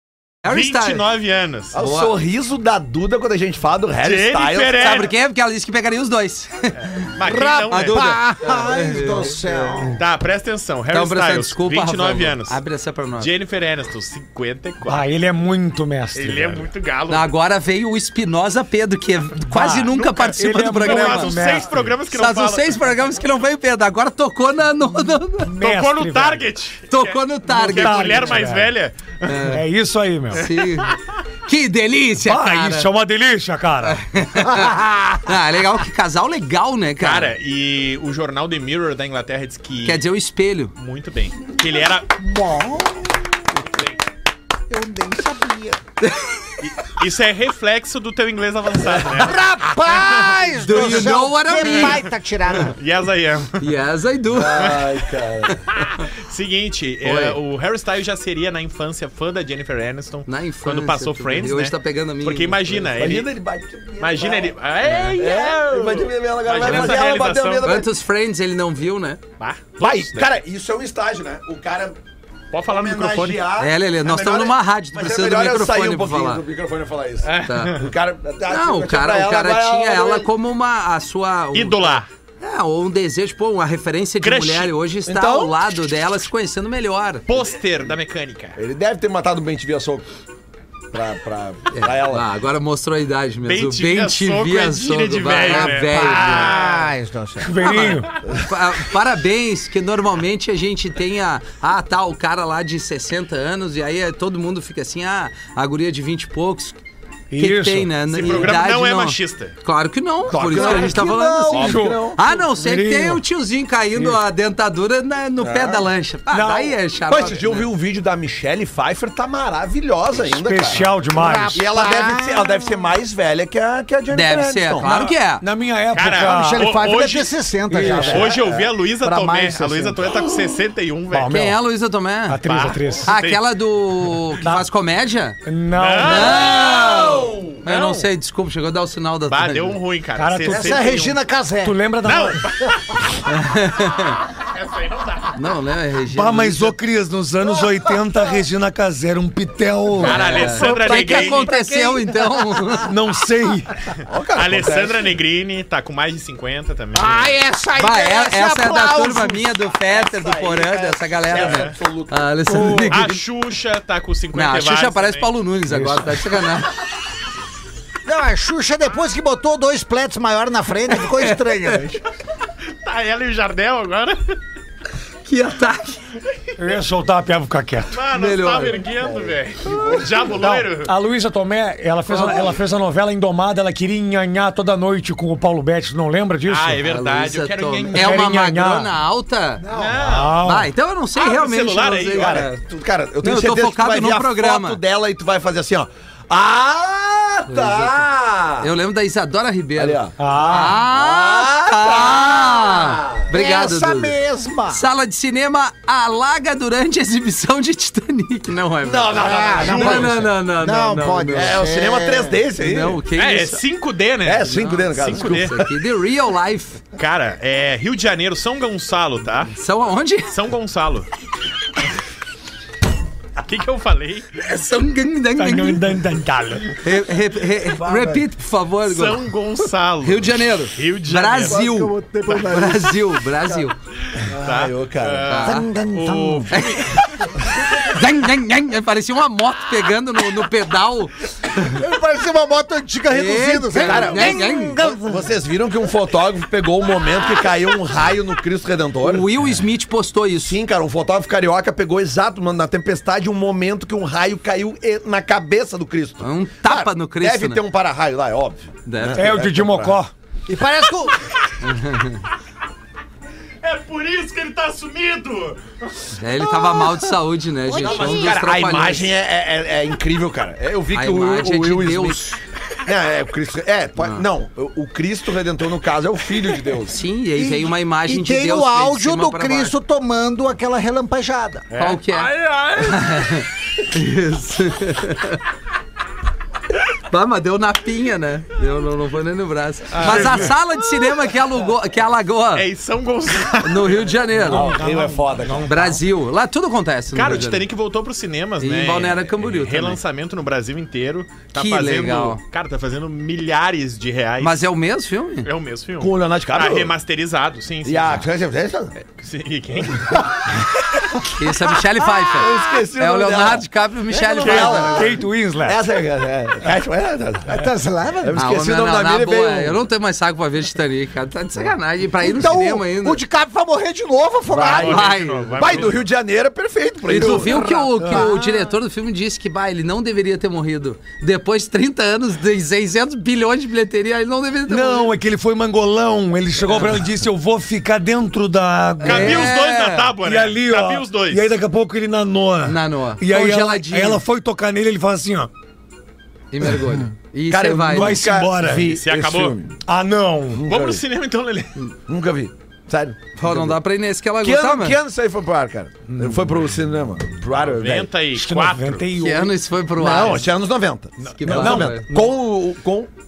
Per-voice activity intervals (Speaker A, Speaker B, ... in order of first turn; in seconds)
Speaker A: 0.4-1.0, 1.8-2.1, 4.8-7.0, 7.7-9.3, 10.9-13.3, 17.1-25.5, 26.9-28.4, 29.3-29.6, 30.3-32.9, 33.8-37.3, 39.8-40.7, 46.0-46.5, 50.6-52.1, 53.6-54.8, 55.8-56.0, 57.0-57.4, 60.3-63.0, 66.6-67.0, 67.6-69.2, 73.6-76.4, 77.5-77.8, 78.5-87.3, 91.7-96.5, 97.6-106.8, 107.4-117.7, 124.1-125.4, 131.3-132.4, 133.1-135.4, 136.0-139.8, 143.3-144.2, 145.4-146.8, 150.0-152.9, 157.8-163.2, 164.3-166.7, 171.1-171.8, 175.3-176.1, 178.1-178.8, 182.1-182.4, 186.8-189.6, 190.4-192.6, 193.2-194.8, 197.5-198.0, 198.6-204.2, 204.7-211.6, 212.6-213.6, 214.5-216.8, 219.5-220.3, 224.4-226.0, 226.8-229.2, 230.0-233.8, 235.3-235.7, 236.5-237.2, 237.7-241.8, 243.1-244.8, 249.0-250.6, 256.2-257.6, 258.9-259.4, 261.6-262.2, 266.2-269.1, 270.9-272.4, 274.0-274.2, 276.9-279.7, 281.8-285.4, 287.1-292.7, 293.6-294.8, 295.7-297.7, 298.6-300.0, 301.5-302.4, 304.4-305.5, 311.3-315.2, 318.4-323.2, 324.6-325.8, 327.1-335.2, 336.7-337.0, 339.0-340.1, 342.6-344.2, 346.5-348.2, 353.4-355.0, 359.2-360.5, 361.3-362.1
Speaker B: 0.5-1.8, 4.0-5.1, 7.0-8.2, 10.0-12.6, 13.2-15.0, 16.1-17.3, 19.9-22.8, 25.6-29.5, 30.4-31.0, 37.0-40.0, 40.8-42.1, 46.6-51.0, 51.6-53.7, 54.6-55.0, 55.7-63.3, 64.0-67.7, 69.4-70.3, 72.5-73.5, 77.2-77.8, 81.5-82.1, 84.2-84.7, 87.3-88.6, 93.4-96.9, 108.1-109.6, 110.6-110.9, 125.9-131.4, 132.4-133.4, 135.7-138.1, 139.3-141.2, 142.1-142.8, 144.4-145.4, 150.0-151.5, 154.3-157.4, 161.4-161.7, 162.7-165.3, 172.8-174.4, 177.9-180.9, 186.5-188.3, 189.7-190.4, 191.2-192.4, 209.5-210.2, 213.2-215.7, 217.0-219.5, 220.3-221.1, 223.4-224.3, 228.9-231.6, 234.1-237.4, 263.6-266.2, 281.7-283.4, 289.9-290.6, 292.5-294.2, 297.1-304.7, 305.4-308.3, 309.0-310.4, 324.6-326.1, 339.0-341.5, 348.8-349.6, 350.7-351.8, 357.7-359.1
Speaker C: 1.7-5.0, 9.4-9.9, 48.8-49.2, 54.3-55.7, 62.8-64.6, 65.1-67.9, 69.8-72.0, 72.6-80.3, 85.1-86.2, 88.6-90.1, 90.9-92.3, 110.3-112.3, 115.4-115.9, 117.1-120.8, 121.5-125.1, 136.4-137.6, 154.1-155.1, 159.8-163.0, 179.0-180.3, 192.2-198.7, 199.8-203.3, 208.8-210.3, 211.3-213.0, 214.2-215.5, 227.5-228.3, 234.2-235.5, 243.8-249.3, 250.4-260.0, 267.8-277.0, 294.5-296.0, 306.0-306.9, 307.8-308.9, 312.3-317.7, 318.2-319.8, 324.5-325.0, 325.6-327.7, 347.5-349.7, 350.5-351.0, 352.1-353.8, 354.4-358.1, 360.0-363.1
Speaker D: 7.2-10.0, 34.5-35.3, 42.2-43.4, 44.7-45.8, 49.1-52.8, 95.5-97.5, 121.1-122.8, 126.2-130.2, 140.5-141.8, 147.5-148.4, 150.6-152.2, 156.9-159.4, 168.1-172.0, 189.6-190.0, 203.3-204.8, 209.2-212.4, 231.5-232.8, 235.5-236.6, 241.6-245.3, 260.5-261.2, 267.7-268.1, 277.4-281.7, 317.5-318.4, 322.2-325.1, 327.1-328.7
Speaker E: 14.8-16.7, 19.5-21.9, 25.4-26.4, 27.7-28.7, 29.4-30.5, 32.2-34.0, 97.4-98.1, 107.3-108.0, 111.5-113.2, 116.3-116.8, 120.3-121.6, 124.9-126.7, 127.7-128.3, 131.1-131.6, 132.3-133.1, 135.5-136.6, 140.2-141.0, 141.6-142.4, 146.1-150.6, 152.9-153.8, 176.6-178.0, 180.4-186.8, 187.9-188.9, 190.0-190.7, 200.2-200.8, 225.4-226.8, 259.1-260.1, 294.4-295.9, 314.4-315.8, 334.7-339.6, 340.2-345.5, 347.9-348.9, 349.9-350.7, 358.4-359.6, 361.4-362.0